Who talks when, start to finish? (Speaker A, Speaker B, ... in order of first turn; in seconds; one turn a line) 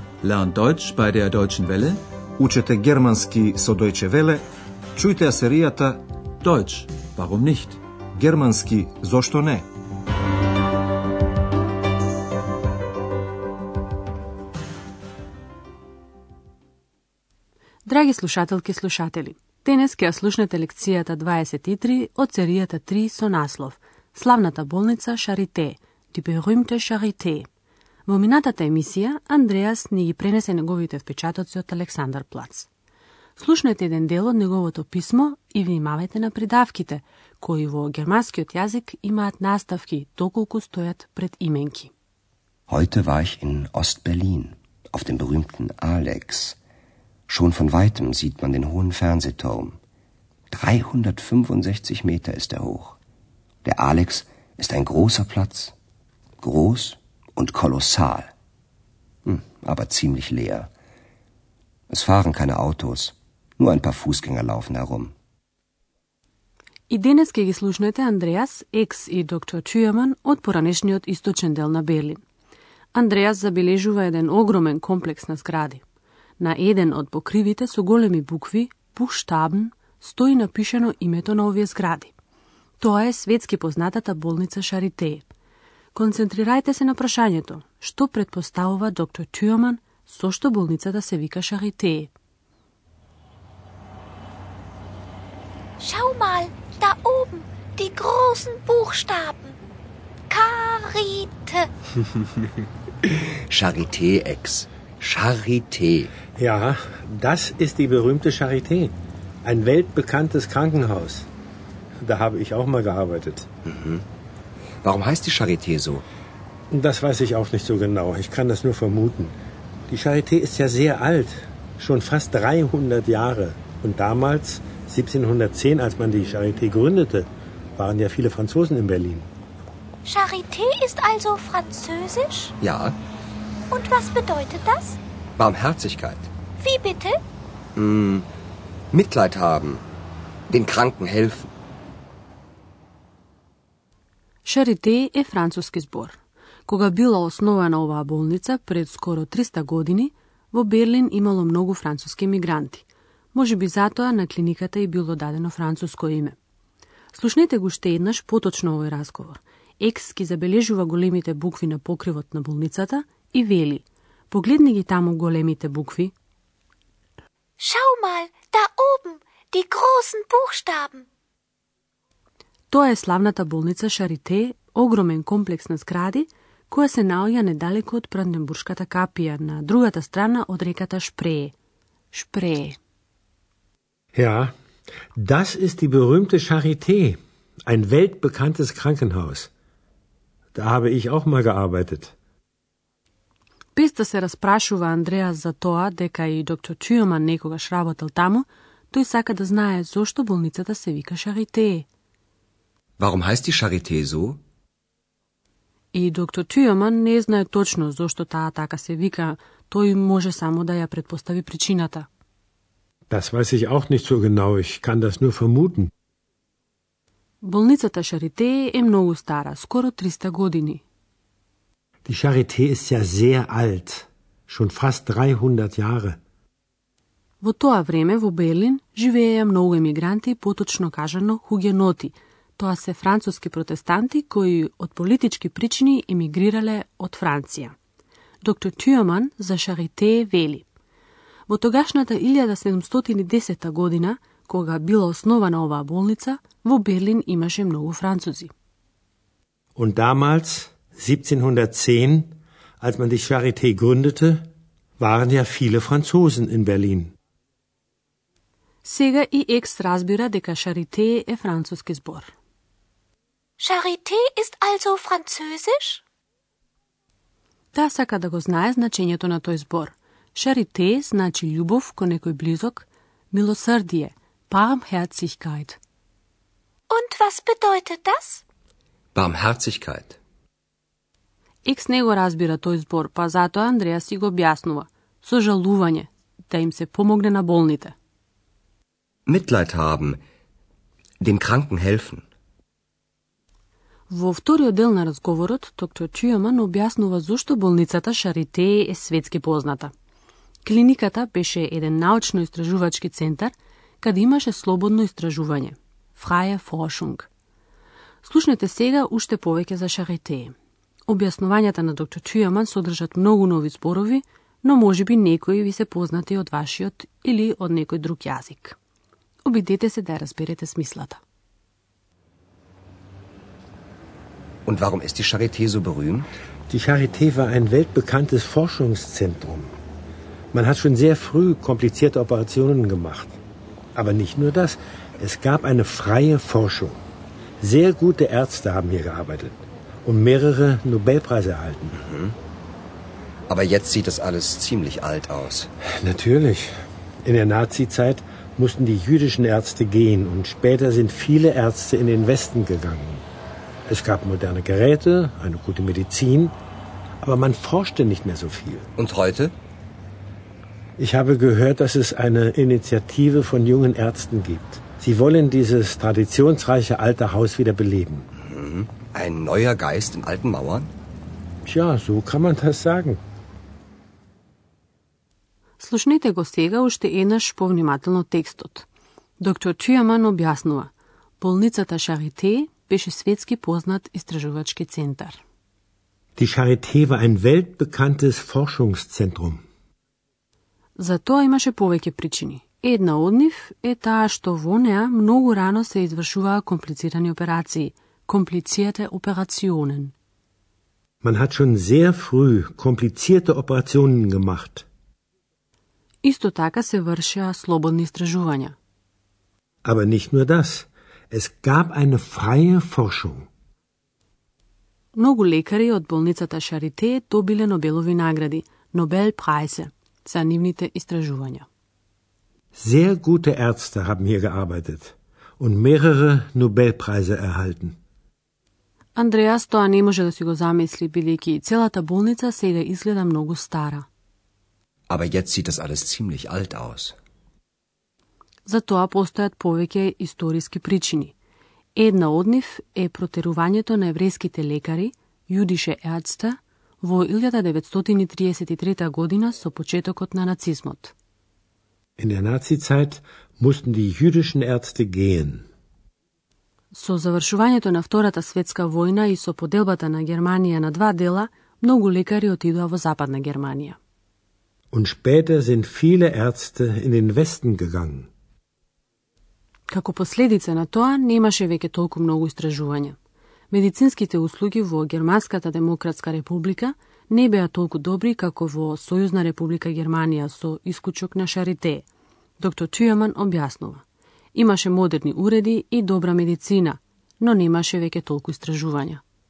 Speaker A: 0.2-2.0
Speaker B: 2.4-4.4
Speaker B: 5.0-6.0
Speaker A: 6.4-7.8
Speaker B: 8.2-9.7
Speaker C: 17.8-27.4
Speaker C: 28.1-32.7
Speaker C: 33.4-41.9
Speaker D: 42.7-46.6
Speaker D: 47.3-49.8
Speaker D: 50.5-53.0
Speaker D: 53.6-55.7
Speaker D: 56.4-58.3
Speaker D: 59.2-60.7
Speaker D: 61.9-65.1
Speaker C: 66.9-72.2
Speaker C: 72.9-75.8
Speaker C: 76.4-82.1
Speaker C: 82.8-85.3
Speaker C: 85.9-92.1
Speaker E: 95.8-99.6
Speaker E: 100.3-101.7
Speaker D: 103.1-106.1
Speaker F: 106.3-111.3
Speaker F: 112.0-113.5
Speaker D: 113.7-114.0
Speaker D: 114.8-116.0
Speaker F: 116.7-119.3
Speaker F: 119.9-129.3
Speaker E: 130.0-132.5
Speaker D: 132.6-132.9
Speaker E: 133.7-135.0
Speaker D: 135.4-136.3
Speaker E: 136.6-137.2
Speaker D: 137.8-138.3
Speaker D: 138.9-139.8
Speaker D: 140.5-141.5
Speaker C: 144.4-156.3
Speaker C: 157.1-166.1
Speaker E: 167.6-171.0
Speaker C: 172.7-181.5
Speaker C: 182.1-182.8
Speaker F: 184.1-184.5
Speaker F: 185.2-189.5
Speaker F: 190.5-192.1
Speaker C: 193.8-201.8
Speaker D: 203.0-204.4
Speaker C: 205.9-212.1
Speaker F: 213.1-215.9
Speaker C: 217.4-220.8
Speaker F: 222.0-226.2
Speaker C: 227.4-237.7
Speaker C: 238.4-240.7
Speaker C: 241.5-248.5
Speaker F: 249.8-254.5
Speaker F: 255.0-257.1
Speaker C: 258.8-262.3
Speaker E: 263.6-266.0
Speaker C: 267.7-275.8
Speaker E: 276.9-278.4
Speaker D: 279.1-280.2
Speaker C: 281.6-287.9
Speaker D: 289.3-290.2
Speaker D: 291.2-292.2
Speaker C: 294.1-299.9
Speaker C: 300.6-307.3
Speaker C: 308.2-310.5
Speaker C: 311.1-318.8
Speaker C: 319.4-321.2
Speaker D: 324.6-326.3
Speaker F: 326.7-329.7
Speaker F: 330.5-333.4
Speaker F: 333.9-337.0
Speaker F: 337.6-342.0
Speaker D: 341.9-342.4
Speaker D: 343.5-345.7
Speaker F: 345.8-353.2
Speaker F: 353.9-356.5
Speaker F: 357.2-358.9
Speaker D: 359.0-359.5
Speaker F: 361.0-368.3
Speaker D: 368.4-370.9
Speaker F: 371.6-373.2
Speaker C: 375.8-378.9
Speaker C: 379.4-385.4
Speaker F: 386.4-389.6
Speaker C: 390.9-400.1
Speaker F: 401.2-404.8
Speaker C: 406.2-408.8
Speaker F: 409.8-413.5
Speaker C: 415.1-421.6
Speaker F: 422.8-427.9
Speaker C: 429.1-434.0
Speaker D: 435.1-437.1
Speaker C: 438.6-441.3
Speaker C: 441.9-451.1
Speaker F: 452.2-455.6
Speaker C: 456.9-464.0
Speaker F: 464.9-468.3
Speaker C: 469.9-473.2
Speaker C: 473.7-482.0
Speaker C: 482.6-484.0
Speaker C: 484.5-489.2